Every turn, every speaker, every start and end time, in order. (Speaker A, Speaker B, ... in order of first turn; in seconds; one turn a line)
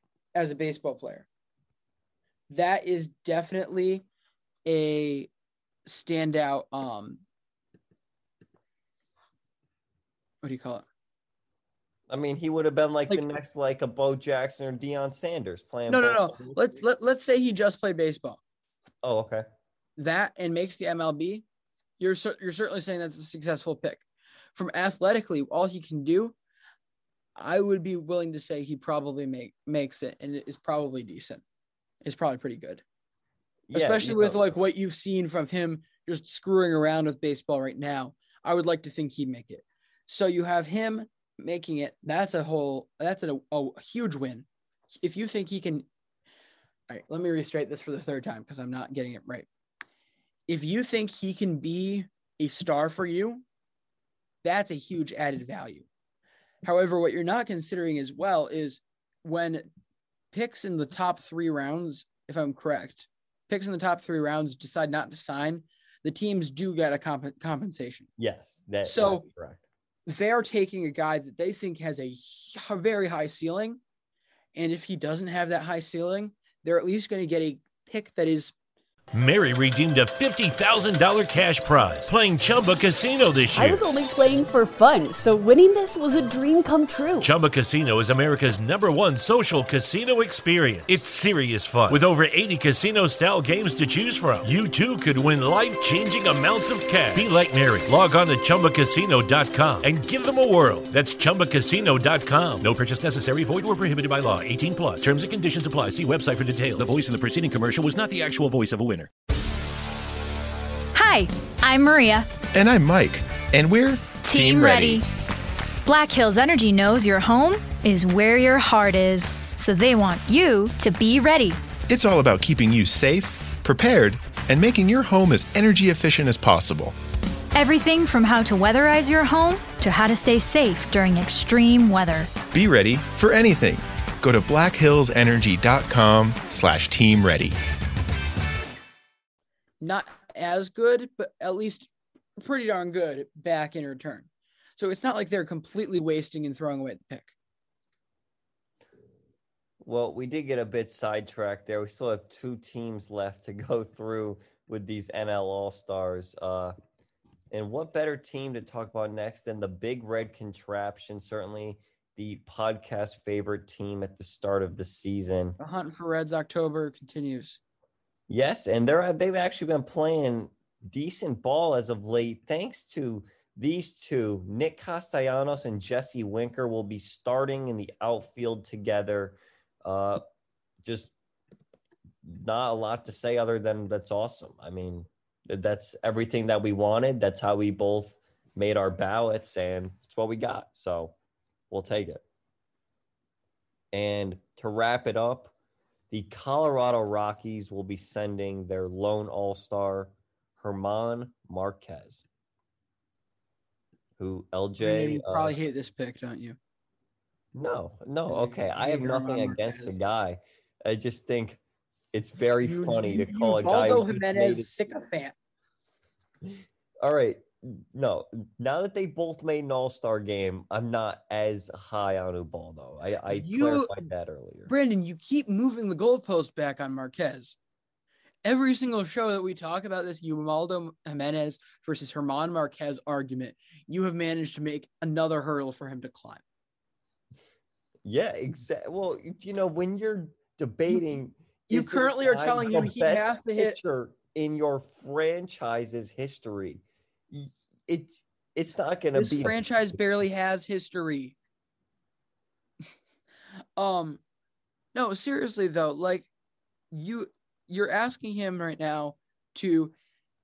Speaker A: 0.3-1.3
Speaker A: 2.5-4.0
Speaker A: 4.7-5.3
Speaker A: 5.8-7.2
Speaker A: 10.4-10.8
Speaker B: 12.1-16.8
Speaker A: 15.9-18.4
Speaker B: 19.0-19.4
Speaker A: 20.0-21.4
Speaker A: 22.0-26.3
Speaker A: 27.4-31.4
Speaker A: 32.0-32.8
Speaker B: 33.7-34.5
Speaker A: 33.7-45.9
Speaker A: 46.9-49.5
Speaker A: 50.5-53.4
Speaker A: 54.4-55.9
Speaker A: 56.6-59.7
Speaker A: 60.3-68.1
Speaker B: 68.2-69.6
Speaker A: 68.8-69.3
Speaker A: 70.1-73.8
Speaker A: 74.5-78.5
Speaker C: 79.1-83.8
Speaker D: 83.5-87.3
Speaker C: 87.2-109.1
Speaker E: 110.9-112.3
Speaker F: 112.5-115.0
Speaker E: 114.2-115.0
Speaker E: 115.8-121.6
Speaker F: 121.9-126.9
Speaker E: 127.5-132.3
Speaker F: 132.5-137.6
Speaker A: 139.8-147.3
Speaker B: 149.8-156.8
Speaker B: 157.5-165.6
Speaker A: 165.6-167.6
Speaker B: 168.3-180.2
Speaker B: 180.8-181.1
Speaker B: 182.2-191.1
Speaker B: 191.7-192.2
Speaker B: 193.9-195.5
Speaker B: 196.1-202.2
Speaker B: 204.2-205.5
Speaker A: 204.8-206.6
Speaker B: 207.5-211.6
Speaker A: 208.3-209.9
Speaker B: 212.1-214.7
Speaker A: 212.6-215.3
Speaker B: 216.4-224.7
Speaker A: 223.3-224.0
Speaker A: 224.7-227.6
Speaker A: 228.4-236.4
Speaker B: 238.0-249.8
Speaker A: 241.7-243.8
Speaker A: 249.1-251.4
Speaker A: 253.8-254.2
Speaker A: 254.9-256.3
Speaker A: 256.9-259.9